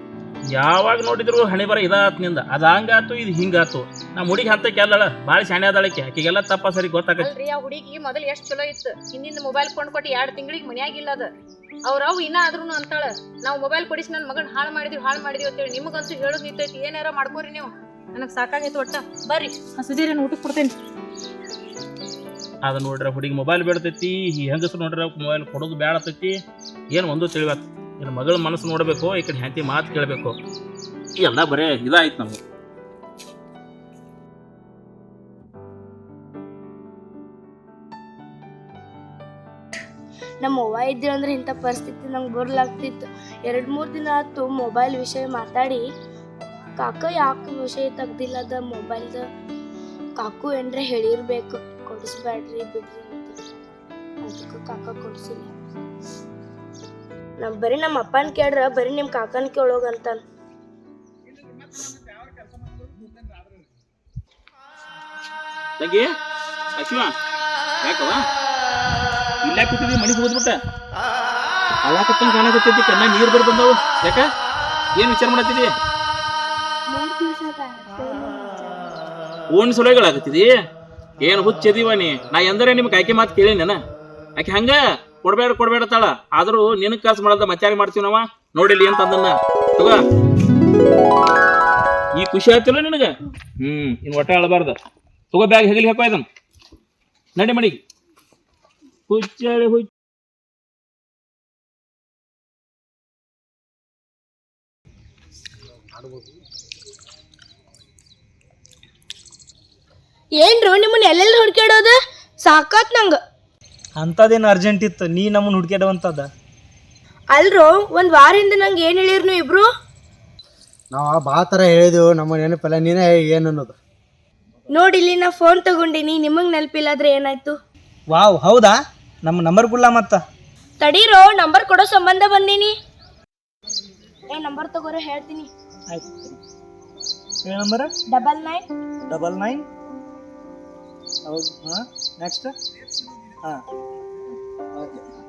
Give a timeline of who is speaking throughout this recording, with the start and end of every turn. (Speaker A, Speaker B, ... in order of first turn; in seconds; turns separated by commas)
Speaker A: 0.5-7.3, Speaker B: 7.2-11.3, Speaker B: 11.8-20.7, Speaker A: 22.6-26.4, Speaker A: 26.9-30.4, Speaker A: 31.2-32.4, Speaker C: 40.4-45.8, Speaker C: 46.8-49.2, Speaker C: 50.2-53.4, Speaker C: 54.2-55.5, Speaker C: 57.4-60.2, Speaker A: 65.8-66.1, Speaker A: 66.8-67.1, Speaker A: 67.8-68.2, Speaker A: 69.4-70.6, Speaker A: 71.8-74.3, Speaker A: 75.0-75.7, Speaker C: 76.9-78.8, Speaker A: 79.5-80.5, Speaker A: 81.2-83.8, Speaker A: 84.4-90.0, Speaker A: 92.2-94.8, Speaker A: 95.3-96.2, Speaker A: 97.4-97.8, Speaker A: 99.1-99.9, Speaker C: 110.4-113.2, Speaker D: 114.0-116.3, Speaker C: 117.3-119.7, Speaker E: 120.9-123.8, Speaker C: 124.7-127.6, Speaker D: 128.1-130.2, Speaker C: 130.8-132.8, Speaker C: 134.3-135.5, Speaker D: 135.9-136.4, Speaker D: 137.4-137.9, Speaker C: 138.1-138.7, Speaker D: 139.1-139.7, Speaker D: 141.2-142.5, Speaker D: 144.8-145.1